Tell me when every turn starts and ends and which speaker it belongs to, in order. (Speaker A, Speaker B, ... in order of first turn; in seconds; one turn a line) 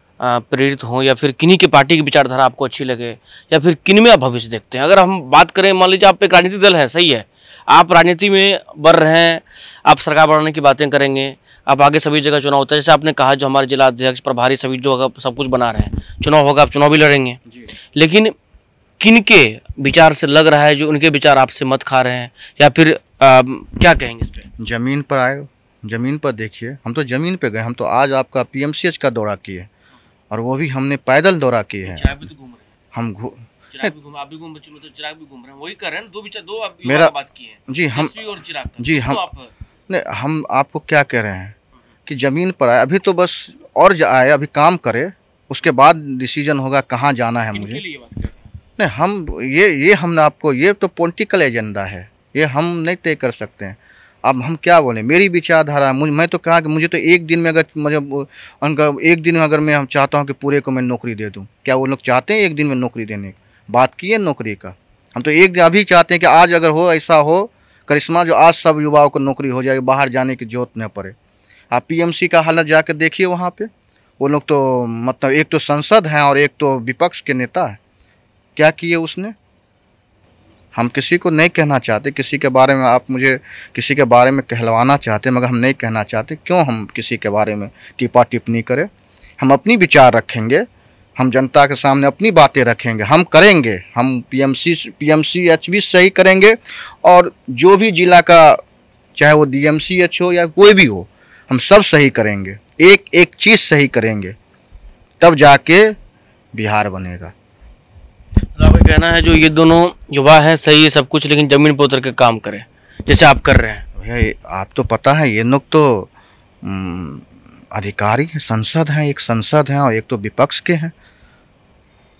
Speaker A: 0.2-17.4
Speaker A: 17.9-18.3
Speaker A: 19.0-24.5
Speaker B: 24.6-29.7
Speaker B: 30.3-32.2
Speaker A: 31.8-32.7
Speaker B: 32.9-33.5
Speaker A: 33.7-39.5
Speaker B: 36.8-37.1
Speaker B: 37.7-38.1
Speaker B: 38.8-39.2
Speaker B: 39.9-47.8
Speaker A: 47.5-48.5
Speaker B: 48.8-71.2
Speaker B: 71.7-77.8
Speaker B: 78.5-79.3
Speaker B: 80.7-98.6
Speaker B: 99.2-104.3
Speaker B: 105.2-106.0
Speaker B: 106.5-107.3
Speaker A: 108.5-113.8
Speaker B: 114.0-116.1
Speaker B: 116.6-120.9